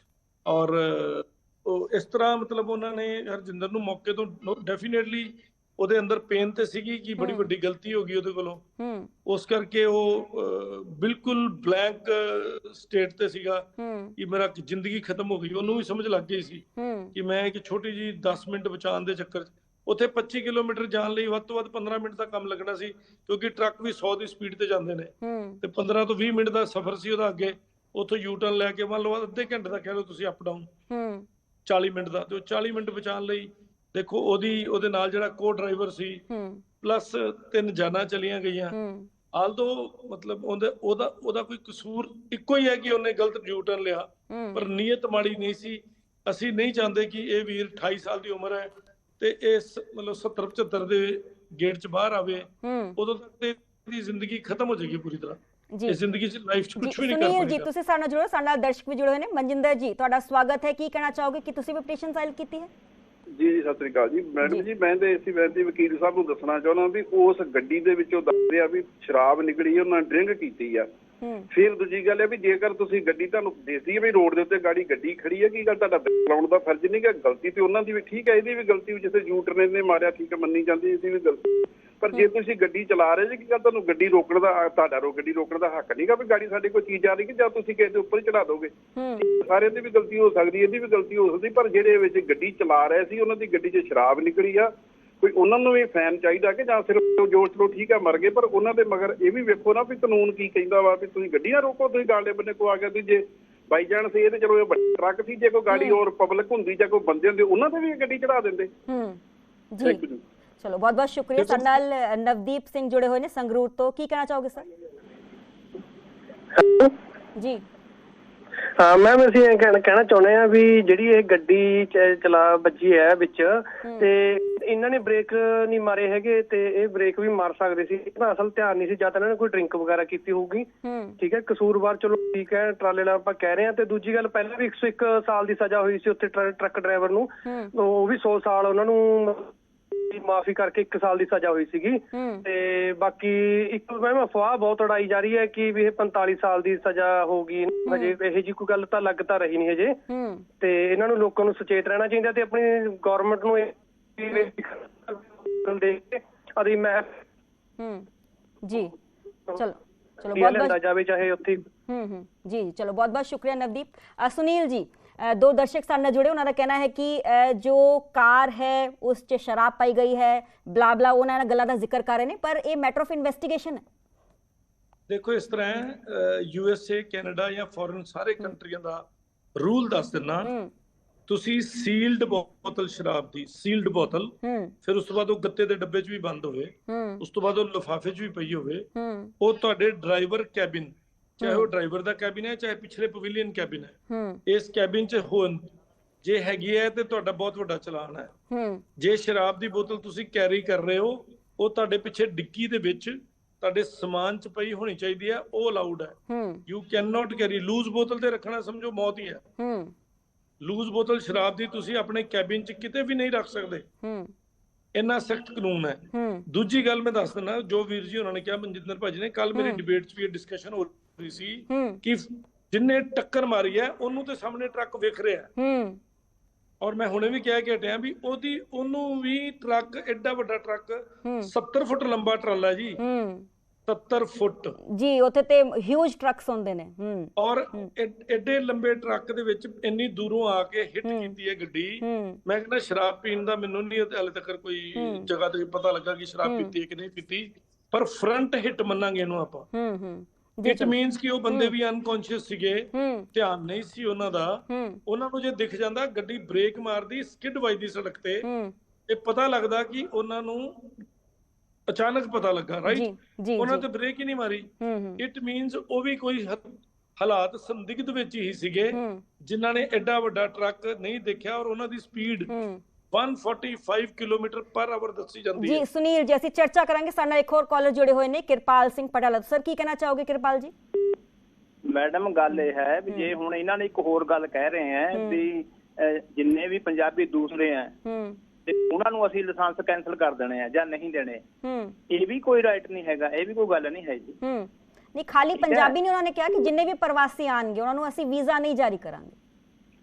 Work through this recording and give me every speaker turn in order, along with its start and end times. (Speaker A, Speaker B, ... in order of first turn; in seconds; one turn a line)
Speaker A: 0.5-8.6
Speaker B: 7.2-7.5
Speaker B: 8.8-9.1
Speaker A: 9.2-30.7
Speaker B: 13.8-14.1
Speaker B: 16.8-17.1
Speaker B: 25.2-25.6
Speaker B: 30.9-31.3
Speaker A: 31.6-36.2
Speaker B: 36.3-36.6
Speaker A: 36.8-38.8
Speaker B: 38.7-39.1
Speaker A: 39.3-57.7
Speaker B: 44.3-44.6
Speaker B: 52.6-53.0
Speaker B: 55.7-56.0
Speaker B: 56.8-62.7
Speaker C: 63.4-70.9
Speaker B: 71.2-71.5
Speaker C: 71.5-108.7
Speaker B: 89.0-89.3
Speaker B: 105.7-106.0
Speaker B: 108.9-109.2
Speaker B: 109.7-110.0
Speaker C: 109.8-110.2
Speaker B: 110.6-114.6
Speaker D: 116.6-116.9
Speaker B: 117.4-117.6
Speaker D: 118.8-130.7
Speaker B: 123.8-124.1
Speaker B: 130.8-131.2
Speaker D: 131.2-150.0
Speaker B: 137.4-137.7
Speaker B: 142.1-142.4
Speaker B: 147.9-148.2
Speaker B: 150.1-150.4
Speaker D: 150.6-157.2
Speaker B: 157.8-158.1
Speaker B: 158.6-158.9
Speaker B: 159.5-160.8
Speaker D: 160.3-161.6
Speaker B: 161.9-173.8
Speaker A: 175.1-179.1
Speaker A: 179.6-180.5
Speaker B: 180.4-180.7
Speaker A: 181.3-188.9
Speaker B: 184.4-184.7
Speaker B: 186.9-187.2
Speaker B: 188.9-189.3
Speaker A: 189.4-193.9
Speaker B: 191.4-191.7
Speaker B: 194.1-194.4
Speaker A: 194.5-198.3
Speaker B: 198.5-198.8
Speaker A: 199.0-206.2
Speaker B: 206.3-206.6
Speaker A: 206.7-209.4
Speaker B: 209.6-209.9
Speaker A: 210.6-213.9
Speaker B: 214.0-214.3
Speaker A: 214.9-225.5
Speaker B: 216.1-216.4
Speaker B: 219.6-219.8
Speaker B: 221.7-222.0
Speaker B: 225.6-226.0
Speaker A: 226.8-233.0
Speaker B: 231.2-231.5
Speaker B: 233.0-233.5
Speaker A: 233.9-234.8
Speaker B: 234.9-237.9
Speaker A: 237.4-249.7
Speaker B: 241.1-241.3
Speaker B: 242.0-242.4
Speaker B: 245.0-245.3
Speaker B: 246.4-246.7
Speaker B: 249.7-250.9
Speaker A: 250.6-258.4
Speaker B: 251.5-251.7
Speaker B: 252.9-253.3
Speaker B: 254.7-255.0
Speaker B: 258.4-258.7
Speaker A: 259.1-261.1
Speaker A: 261.9-272.5
Speaker B: 262.9-263.9
Speaker B: 264.8-265.2
Speaker B: 268.9-269.2
Speaker B: 272.5-272.8
Speaker A: 273.1-275.8
Speaker B: 275.6-280.7
Speaker E: 281.9-287.9
Speaker B: 283.1-283.3
Speaker B: 285.1-285.4
Speaker B: 288.1-288.4
Speaker E: 288.6-291.4
Speaker B: 291.6-292.0
Speaker E: 292.1-294.4
Speaker B: 294.4-299.4
Speaker E: 295.5-295.9